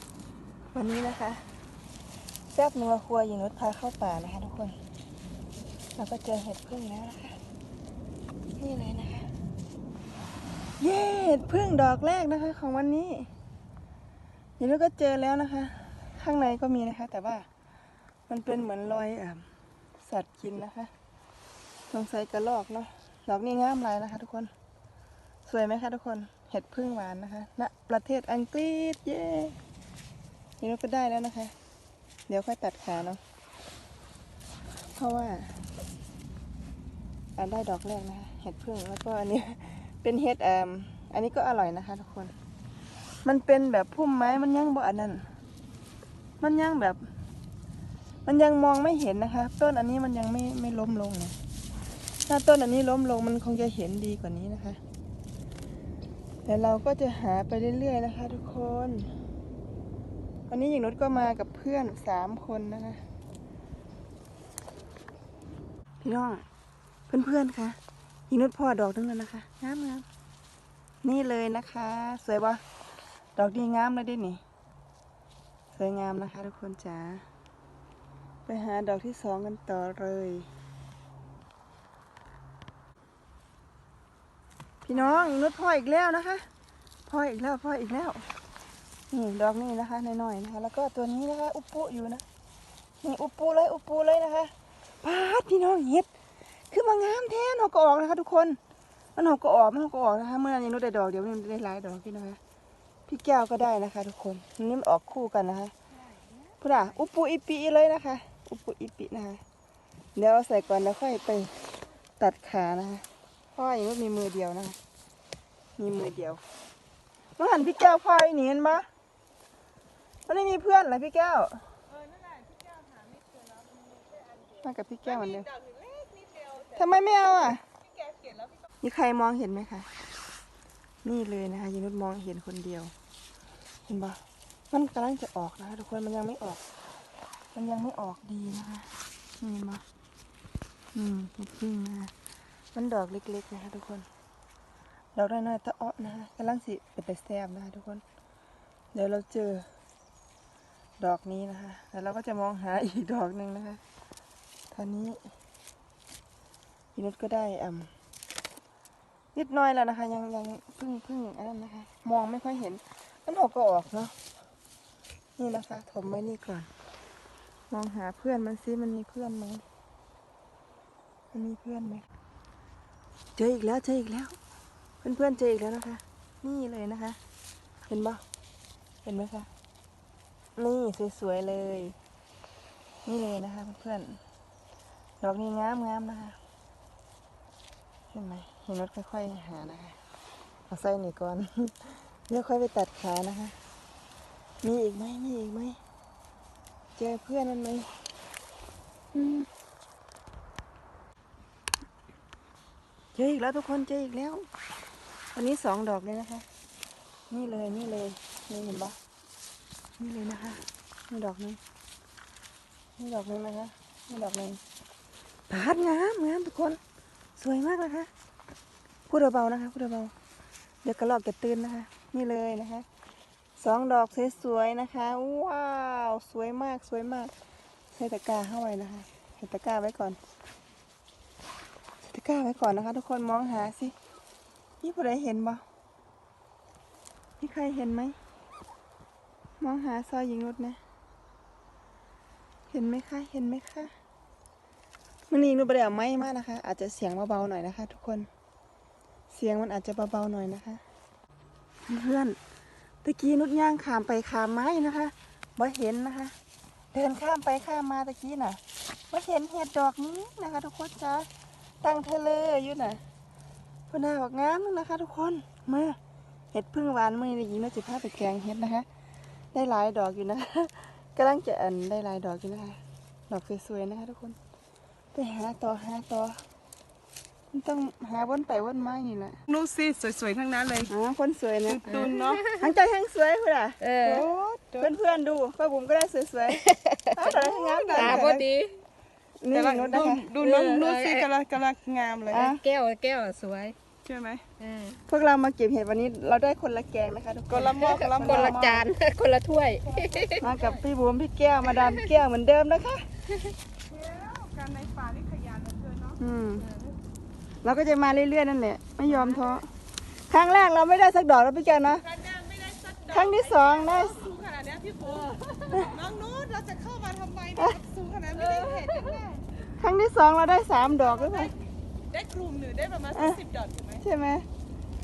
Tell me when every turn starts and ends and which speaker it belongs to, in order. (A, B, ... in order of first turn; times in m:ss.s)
0:00.7-0:01.4 A
0:02.5-0:04.8 A
0:06.0-0:07.4 A
0:08.6-0:09.3 A
0:10.8-0:13.3 A
0:14.6-0:17.4 A
0:18.3-0:19.4 A
0:20.0-0:20.9 A
0:21.9-0:24.5 A
0:25.4-0:29.6 A
0:30.6-0:31.5 A
0:32.3-0:33.2 A
0:35.0-0:35.6 A
0:37.4-0:42.3 A
0:43.2-0:45.2 A
0:46.4-0:47.0 A
0:48.2-0:51.3 A
0:52.3-0:54.8 A
0:56.4-0:59.1 A
1:00.5-1:03.0 A
1:06.0-1:06.4 A
1:07.1-1:07.8 A
1:08.3-1:10.0 A
1:11.0-1:12.6 A
1:13.4-1:14.4 A
1:15.7-1:17.2 A
1:18.4-1:20.5 A
1:24.8-1:26.4 A
1:27.0-1:28.2 A
1:29.1-1:32.2 A
1:33.0-1:34.5 A
1:35.0-1:36.1 A
1:36.7-1:38.6 A
1:39.2-1:42.4 A
1:43.1-1:45.7 A
1:46.6-1:49.4 A
1:50.2-1:54.8 A
1:55.8-1:56.4 A
1:57.4-1:58.8 A
2:00.3-2:01.6 A
2:02.0-2:04.0 B
2:04.6-2:05.5 A
2:05.7-2:06.4 B
2:06.7-2:07.6 A
2:08.8-2:09.9 A
2:11.0-2:12.9 A
2:13.8-2:16.6 A
2:17.5-2:19.8 A
2:20.9-2:22.1 A
2:22.7-2:24.1 A
2:25.1-2:28.0 A
2:28.9-2:29.7 A
2:31.0-2:33.8 A
2:34.7-2:35.2 A
2:36.9-2:37.9 A
2:39.3-2:44.1 A
2:45.4-2:46.7 A
2:47.7-2:49.6 A
2:51.3-2:52.0 A
2:53.4-2:54.4 A
2:55.0-2:57.2 A
2:57.8-2:58.2 A
2:59.0-2:59.5 A
3:00.6-3:01.9 A
3:03.0-3:04.2 A
3:05.2-3:06.4 A
3:08.1-3:10.0 A
3:10.7-3:13.6 A
3:14.6-3:15.8 A
3:17.0-3:17.9 A
3:19.1-3:19.5 A
3:23.1-3:24.4 A
3:25.3-3:26.4 A
3:27.3-3:29.0 A
3:30.0-3:31.6 A
3:33.0-3:34.6 A
3:35.5-3:36.8 A
3:37.4-3:38.1 A
3:39.1-3:40.1 A
3:40.8-3:42.8 A
3:43.6-3:47.3 A
3:47.9-3:50.2 A
3:52.0-3:53.9 A
3:54.8-3:55.6 A
3:57.4-3:58.2 A
3:59.6-4:00.8 A
4:02.7-4:03.9 A
4:05.3-4:08.3 A
4:09.3-4:10.8 A
4:11.8-4:12.4 A
4:13.0-4:16.3 A
4:16.9-4:18.6 A
4:19.1-4:21.3 A
4:21.8-4:23.0 A
4:23.9-4:26.0 A
4:26.5-4:28.8 A
4:29.5-4:34.4 A
4:35.1-4:36.4 A
4:37.5-4:39.4 A
4:39.5-4:40.9 B
4:40.9-4:43.8 A
4:41.7-4:42.4 B
4:41.9-4:42.6 C
4:43.8-4:44.3 C
4:44.0-4:44.9 B
4:44.8-4:46.6 A
4:46.5-4:47.2 C
4:47.1-4:48.3 A
4:47.2-4:48.5 B
4:47.9-4:48.8 C
4:49.4-4:50.3 A
4:49.5-4:52.5 B
4:49.9-4:51.3 C
4:52.3-4:52.6 A
4:52.3-4:53.8 C
4:54.0-4:54.4 B
4:54.6-4:55.0 C
4:55.1-4:58.8 A
4:57.5-4:58.6 B
4:57.7-5:00.5 C
5:00.4-5:03.0 A
5:03.9-5:06.2 B
5:06.2-5:06.7 A
5:06.7-5:06.9 C
5:07.6-5:09.7 A
5:09.1-5:09.6 C
5:10.3-5:12.1 A
5:12.1-5:19.4 B
5:13.1-5:14.3 A
5:15.1-5:15.8 C
5:18.4-5:19.1 C
5:19.7-5:21.5 A
5:21.0-5:21.5 B
5:22.1-5:24.0 B
5:23.1-5:23.4 A
5:24.0-5:24.4 A